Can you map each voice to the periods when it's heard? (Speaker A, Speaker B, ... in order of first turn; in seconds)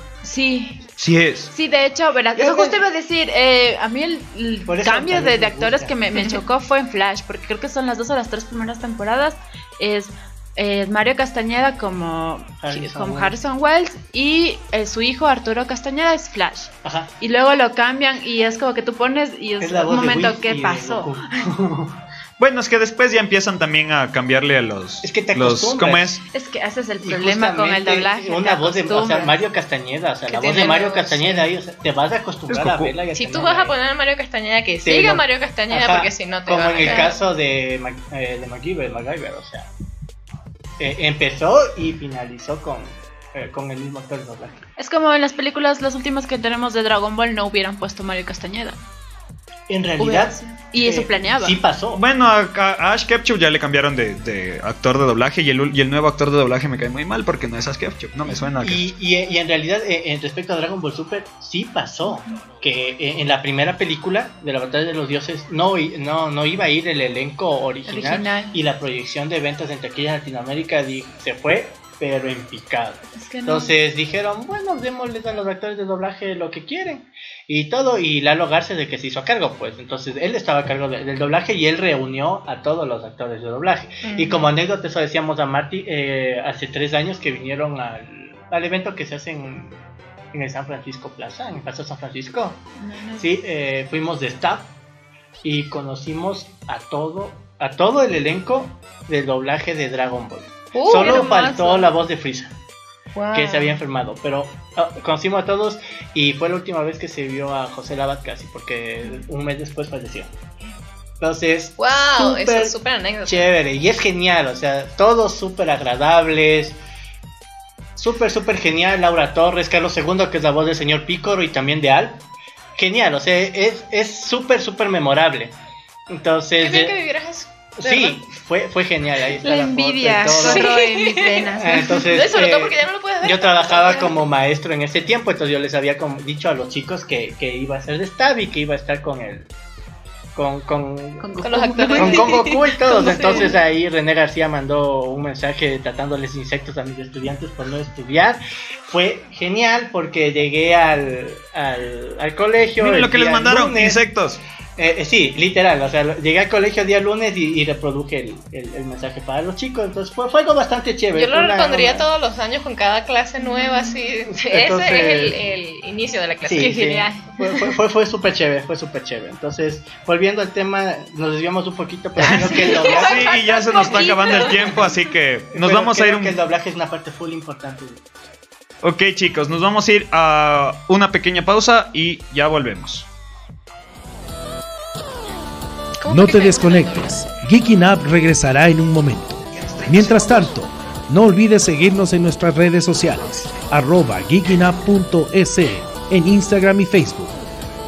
Speaker A: 0.2-0.8, 1.5-21.1, 26.3-29.4, 44.8-48.8, 50.0-51.6, 62.1-62.4, 67.9-68.6, 73.2-73.7, 92.8-93.3, 100.9-101.9, 129.4-132.0, 141.2-143.5, 163.4-163.9, 166.6-167.3, 172.3-174.8
Speaker B: 1.0-1.5, 22.4-26.2, 51.9-58.9, 152.8-154.4, 172.9-176.4, 178.8-183.1, 189.5-190.6
Speaker C: 2.4-2.9, 4.7-6.0, 12.6-13.4, 16.8-17.1, 19.6-22.0, 25.0-26.1, 27.0-33.8, 34.8-39.7, 40.8-44.6, 49.7-52.0, 58.6-89.8, 90.3-92.6, 93.2-94.7, 95.4-102.5, 103.3-110.3, 111.2-112.8, 113.3-116.8, 118.0-122.2, 122.8-125.6, 126.1-127.0, 127.8-130.7, 131.6-139.5, 140.3-141.3, 141.9-154.0, 154.8-162.1, 164.3-165.4, 166.4-173.3, 175.5-178.2
Speaker D: 30.3-31.5, 33.1-37.2, 84.0-84.5, 100.7-101.2, 103.2-103.8, 111.8-113.5, 126.6-128.2, 130.3-134.2, 141.4-143.5, 161.1-167.0, 172.3-174.8, 186.0-187.3
Speaker E: 186.1-197.4